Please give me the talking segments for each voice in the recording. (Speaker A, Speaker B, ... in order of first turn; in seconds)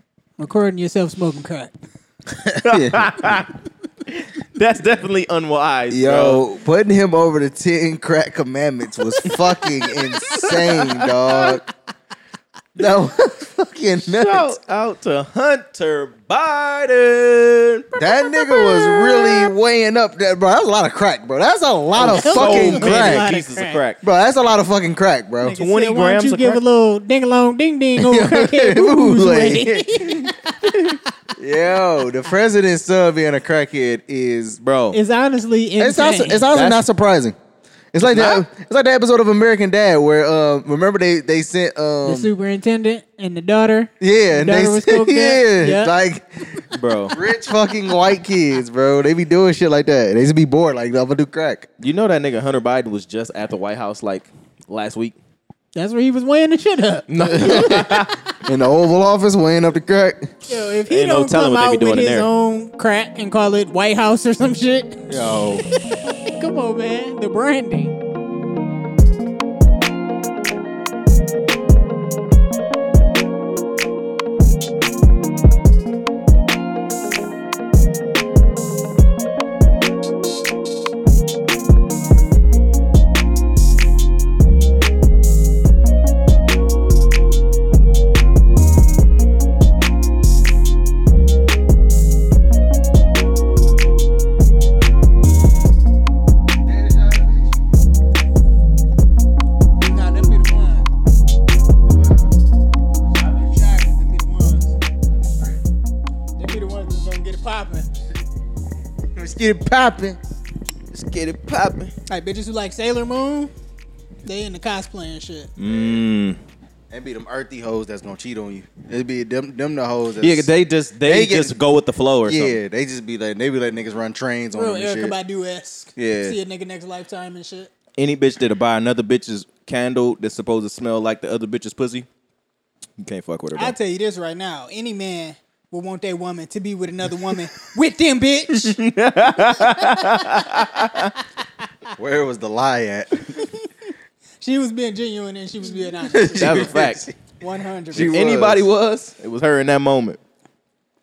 Speaker A: 0.4-1.8, 18.3-19.4, 22.0-23.8, 25.4-31.1, 34.9-36.5, 42.0-45.9, 55.8-58.2, 60.5-65.1, 65.6-68.0, 99.8-100.9, 103.3-104.7, 106.4-107.9, 112.1-113.5, 114.2-115.5, 124.5-127.7, 133.6-138.8, 139.5-140.9, 143.3-143.7, 144.4-146.8, 147.4-148.2
Speaker B: 2.5-3.3, 5.9-11.6, 12.8-14.5, 18.0-23.3, 24.0-25.6, 28.0-30.3, 31.4-34.6, 35.8-37.4, 37.9-42.3, 44.0-51.7, 57.3-57.9, 58.4-60.4, 65.1-65.7, 96.7-97.6, 101.9-102.3, 109.2-110.2, 115.6-116.0, 116.9-120.5, 121.0-121.6, 122.3-125.2, 126.0-126.4, 142.0-143.4, 146.1-147.1, 147.9-148.7
Speaker C: 2.6-3.5, 4.1-6.4, 10.3-11.6, 14.1-18.0, 22.0-24.0, 25.6-26.6, 34.6-35.0, 36.5-36.8, 38.0-38.5, 46.7-47.2, 51.8-55.2, 57.1-58.1, 60.9-62.3, 110.9-111.9, 115.6-116.4, 120.2-122.6, 128.0-132.1, 133.0-133.8, 138.7-141.1, 146.3-147.1, 147.9-150.2